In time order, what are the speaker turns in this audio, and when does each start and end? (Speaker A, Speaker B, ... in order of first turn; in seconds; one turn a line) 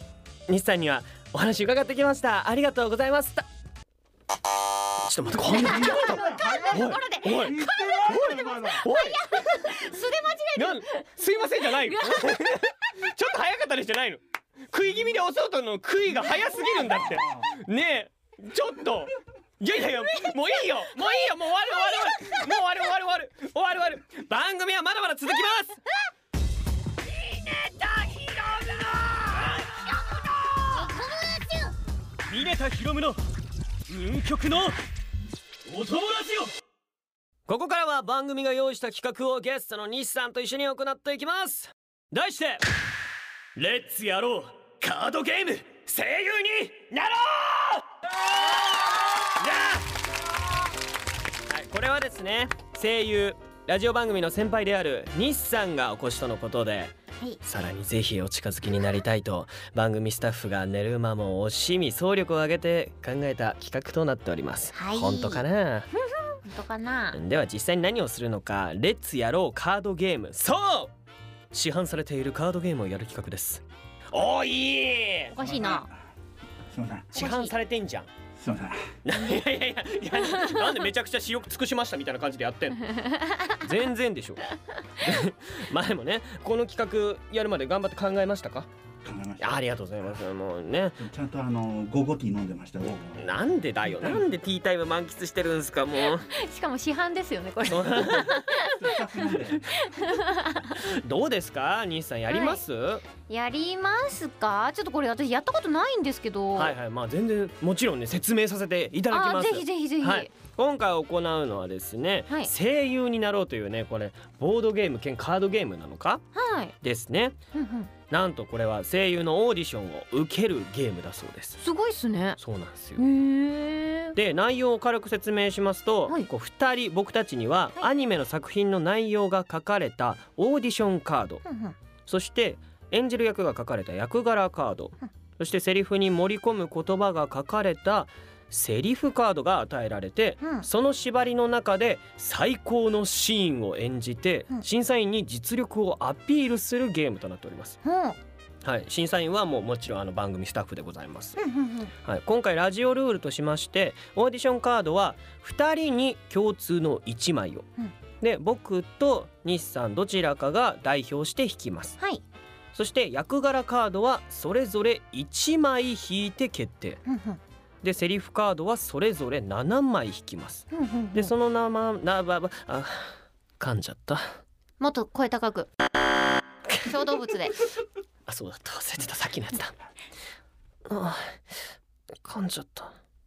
Speaker A: 0.5-3.5
Speaker A: 5.0-9.7
Speaker B: 5.3-8.9
Speaker C: 5.4-12.6
Speaker A: 10.6-25.8
Speaker B: 16.6-17.5
Speaker C: 20.2-22.6
Speaker A: 27.2-30.9
Speaker C: 30.7-31.7
Speaker A: 32.3-33.2
Speaker A: 33.9-34.8
Speaker A: 35.6-36.5
Speaker A: 37.5-42.7
Speaker A: 43.5-49.9
Speaker A: 51.5-65.9
Speaker C: 64.7-65.4
Speaker C: 66.3-67.2
Speaker A: 67.1-70.9
Speaker A: 71.5-75.3
Speaker C: 75.3-75.9
Speaker B: 75.3-76.0
Speaker B: 76.7-77.1
Speaker A: 77.1-78.1
Speaker C: 77.1-77.5
Speaker B: 78.3-78.9
Speaker A: 79.0-82.9
Speaker C: 82.9-83.6
Speaker A: 83.5-84.4
Speaker A: 85.0-88.7
Speaker B: 89.0-90.2
Speaker A: 89.4-91.0
Speaker B: 91.0-93.3
Speaker A: 93.0-96.3
Speaker B: 93.8-94.2
Speaker C: 96.0-99.1
Speaker A: 97.7-98.4
Speaker B: 98.5-99.7
Speaker C: 99.7-100.8
Speaker A: 100.7-103.0
Speaker C: 102.3-102.6
Speaker C: 103.3-106.8
Speaker A: 106.5-116.2
Speaker C: 109.1-110.3
Speaker C: 116.3-116.7
Speaker A: 116.8-117.3
Speaker C: 117.5-117.9
Speaker A: 118.1-121.6
Speaker C: 121.6-122.4
Speaker A: 122.4-123.0
Speaker C: 123.0-124.2
Speaker A: 124.1-131.4
Speaker C: 131.4-131.8
Speaker A: 132.1-147.8
Speaker C: 140.4-140.7
Speaker C: 147.8-148.2
Speaker A: 148.6-151.4
Speaker C: 151.4-151.9
Speaker A: 152.0-157.7
Speaker A: 158.2-162.0
Speaker A: 162.7-167.0
Speaker C: 167.1-167.4
Speaker A: 167.8-174.4
Speaker C: 170.7-171.3
Speaker C: 174.8-175.7
Speaker C: 176.8-177.6
Speaker A: 178.3-179.7
Speaker A: 180.9-181.6
Speaker A: 182.2-182.9